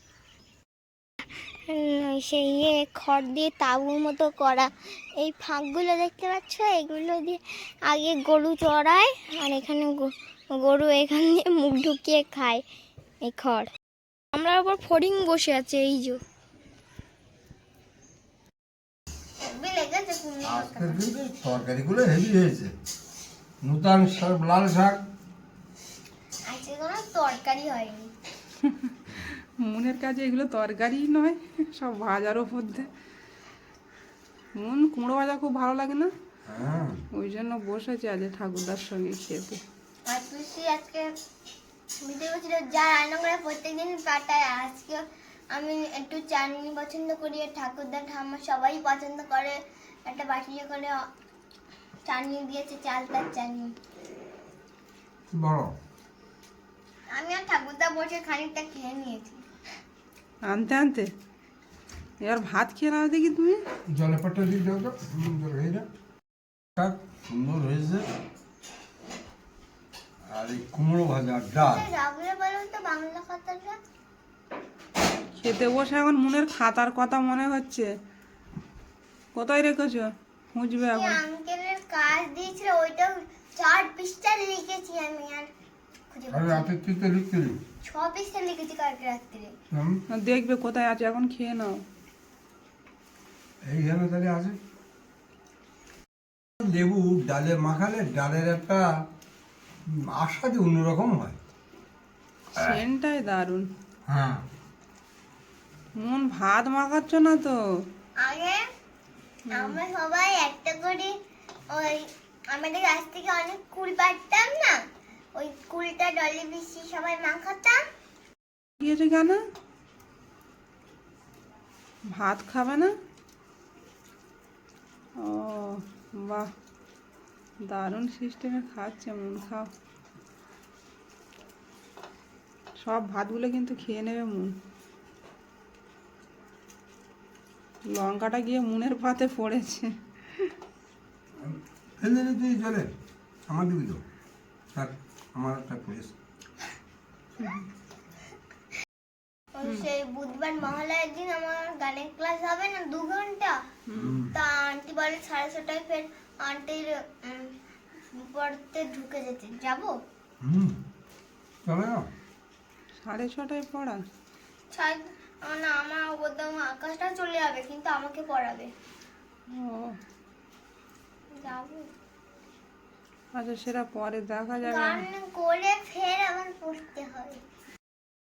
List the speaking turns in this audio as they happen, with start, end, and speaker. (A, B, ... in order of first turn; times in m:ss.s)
0:01.7-0:12.6 A
0:13.2-0:13.7 A
0:14.3-0:16.2 A
0:19.4-0:21.1 A
0:20.4-0:22.7 B
0:23.6-0:25.0 B
0:26.4-0:28.1 A
0:28.6-0:32.9 C
0:34.5-0:36.1 C
0:36.5-0:37.0 B
0:37.1-0:39.6 C
0:40.0-0:41.1 A
0:42.0-0:51.0 A
0:52.0-0:53.8 A
0:55.3-0:55.7 B
0:57.1-0:59.4 A
1:00.4-1:01.1 C
1:02.2-1:03.6 C
1:03.9-1:05.9 B
1:06.8-1:08.1 B
1:10.3-1:11.9 B
1:11.6-1:13.8 A
1:15.3-1:17.9 C
1:19.3-1:21.2 C
1:20.8-1:25.5 A
1:26.1-1:26.7 A
1:26.3-1:27.6 B
1:27.8-1:29.5 A
1:29.7-1:30.0 B
1:30.1-1:31.8 C
1:33.6-1:34.6 B
1:36.6-1:38.9 B
1:39.9-1:41.4 B
1:42.6-1:43.7 C
1:44.1-1:44.4 B
1:46.0-1:47.6 C
1:48.2-1:48.6 A
1:49.5-1:51.2 A
1:51.7-1:54.8 A
1:55.3-1:57.8 A
1:58.8-1:59.4 C
2:02.0-2:02.9 C
2:05.2-2:06.5 C
2:07.7-2:09.7 C
2:12.8-2:14.5 C
2:17.9-2:20.5 C
2:21.4-2:22.9 B
2:23.5-2:24.0 B
2:24.7-2:26.1 B
2:29.5-2:33.6 A
2:33.9-2:34.2 C
2:33.9-2:34.3 B
2:34.3-2:37.5 A
2:38.1-2:39.9 A
2:40.4-2:40.8 B
2:41.6-2:42.1 B
2:43.0-2:44.0 C
2:44.7-2:48.7 A
2:49.5-2:50.0 C
2:51.3-2:51.9 A
2:53.3-2:55.0 C
2:54.6-2:57.4 A